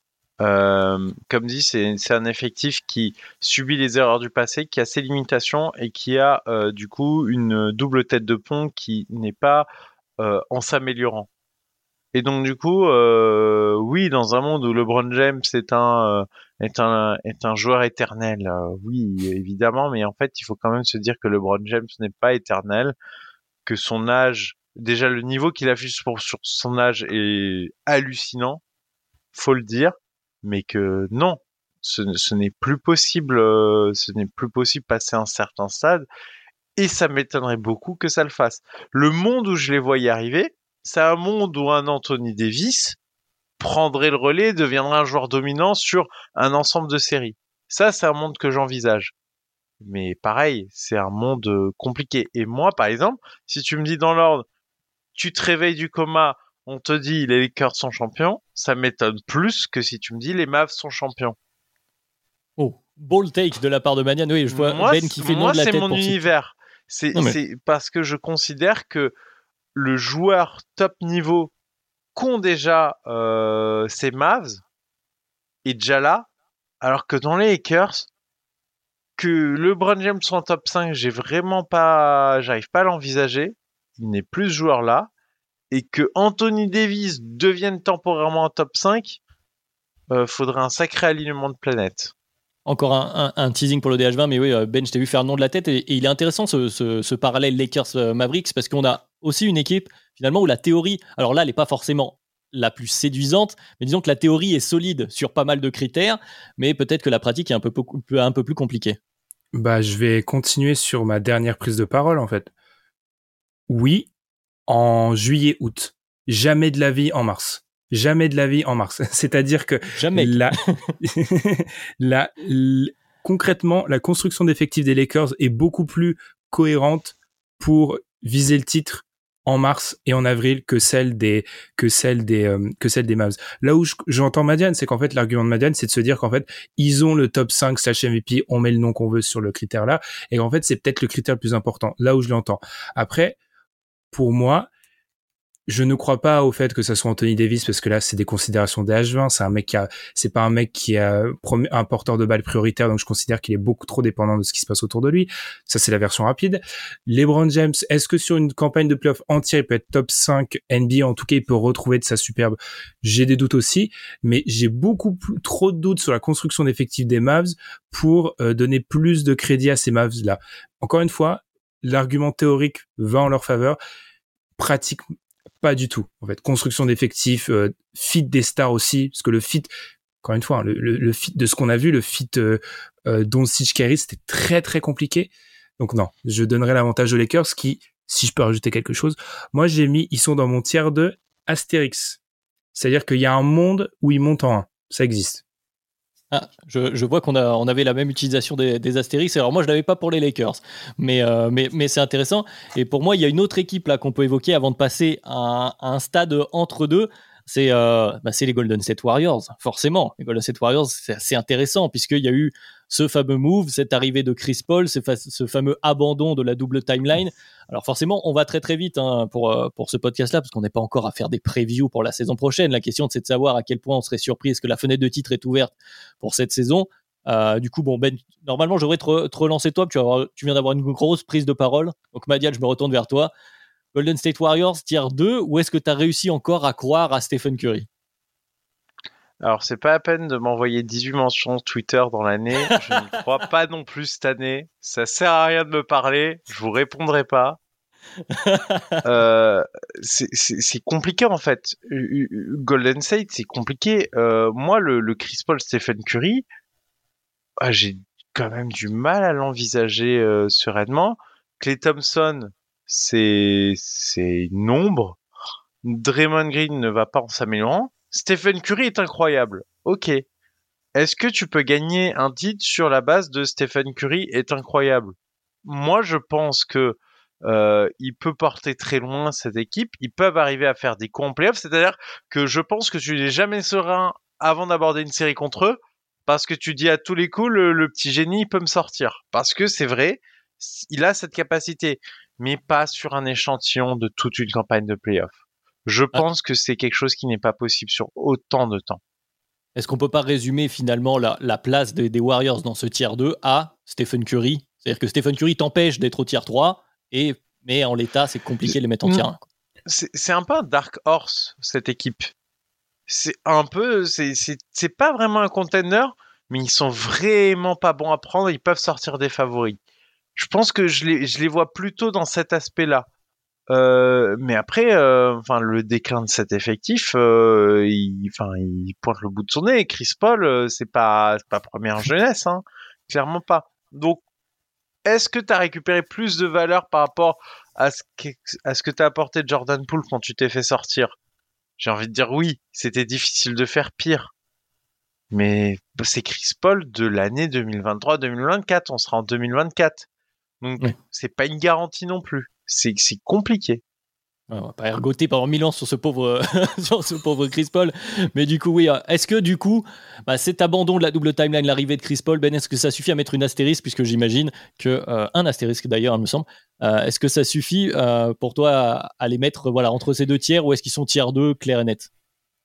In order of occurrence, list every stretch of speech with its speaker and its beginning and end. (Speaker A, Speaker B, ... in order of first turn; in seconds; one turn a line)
Speaker A: 0.4-9.7
Speaker A: 10.2-11.3
Speaker A: 12.1-23.0
Speaker A: 23.7-28.6
Speaker A: 29.3-36.1
Speaker A: 36.8-43.0
Speaker A: 43.6-49.1
Speaker A: 49.8-54.5
Speaker A: 55.1-61.4
Speaker B: 62.6-66.2
Speaker A: 64.5-69.1
Speaker A: 69.8-71.5
Speaker A: 72.2-74.6
Speaker A: 75.7-76.3
Speaker A: 76.8-78.1
Speaker A: 79.2-85.1
Speaker A: 85.7-89.2
Speaker A: 90.1-92.1
Speaker B: 92.7-109.0
Speaker C: 109.5-112.5
Speaker C: 113.7-114.1
Speaker C: 114.7-143.4
Speaker B: 120.0-120.9
Speaker C: 144.1-144.7
Speaker C: 145.7-173.8
Speaker C: 174.6-175.1
Speaker C: 175.6-179.7
Speaker C: 180.2-192.2
Speaker C: 192.8-195.4
Speaker B: 196.3-233.3
Speaker B: 233.9-237.9
Speaker A: 239.4-247.6
Speaker B: 248.3-249.0
Speaker A: 249.0-256.5
Speaker A: 257.6-265.2
Speaker A: 265.8-270.2
Speaker A: 270.9-275.1
Speaker A: 275.6-295.4
Speaker A: 295.9-299.0
Speaker B: 299.8-309.4
Speaker A: 309.9-312.3
Speaker A: 313.1-319.8
Speaker A: 320.4-323.1
Speaker A: 323.7-334.2
Speaker A: 335.1-341.2
Speaker A: 341.8-344.3
Speaker A: 345.3-350.1
Speaker A: 350.6-353.8
Speaker B: 354.5-372.1